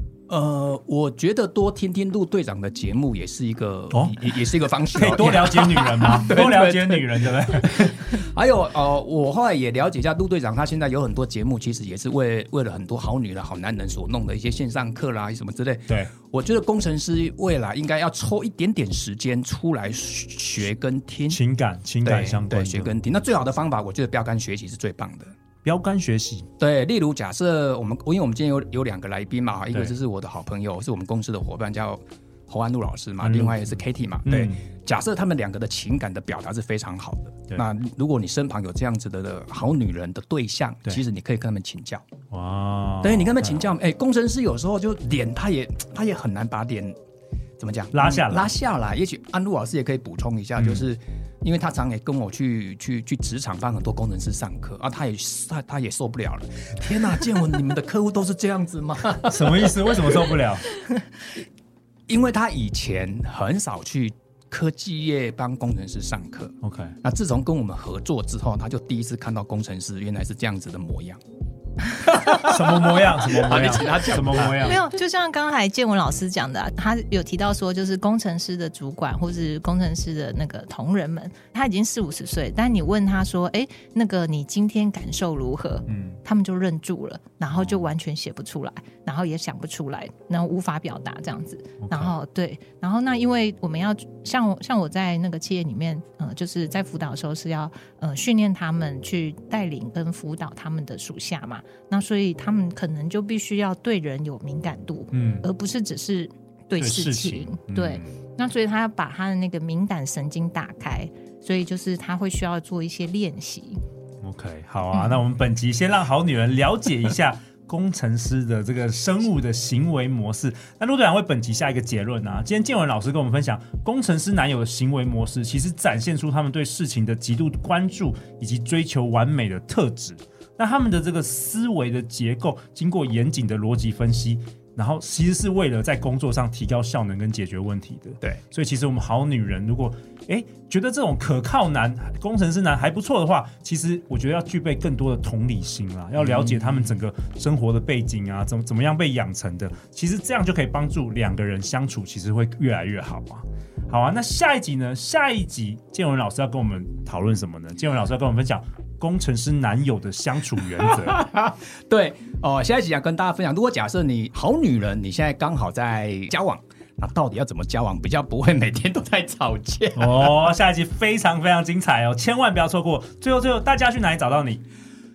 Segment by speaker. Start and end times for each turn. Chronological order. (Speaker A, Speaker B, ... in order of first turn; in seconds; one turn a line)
Speaker A: 0.3-21.4
Speaker B: 3.9-4.2
Speaker B: 4.9-8.2
Speaker B: 21.3-22.9
Speaker A: 22.0-25.3
Speaker B: 25.6-26.5
Speaker A: 26.6-42.0
Speaker B: 33.2-34.6
Speaker B: 42.3-43.6
Speaker A: 43.0-47.0
Speaker A: 47.6-60.0
Speaker B: 47.9-48.5
Speaker B: 50.6-50.8
Speaker B: 59.3-60.7
Speaker A: 62.1-71.2
Speaker B: 66.6-66.9
Speaker A: 72.0-74.7
Speaker B: 72.3-74.8
Speaker C: 74.5-113.8
Speaker B: 85.9-86.2
Speaker B: 87.5-87.8
Speaker B: 91.8-92.1
Speaker B: 105.1-105.5
Speaker B: 106.8-108.1
Speaker B: 114.2-161.2
Speaker C: 114.9-115.2
Speaker A: 146.2-146.9
Speaker A: 160.8-170.5
Speaker B: 169.9-174.6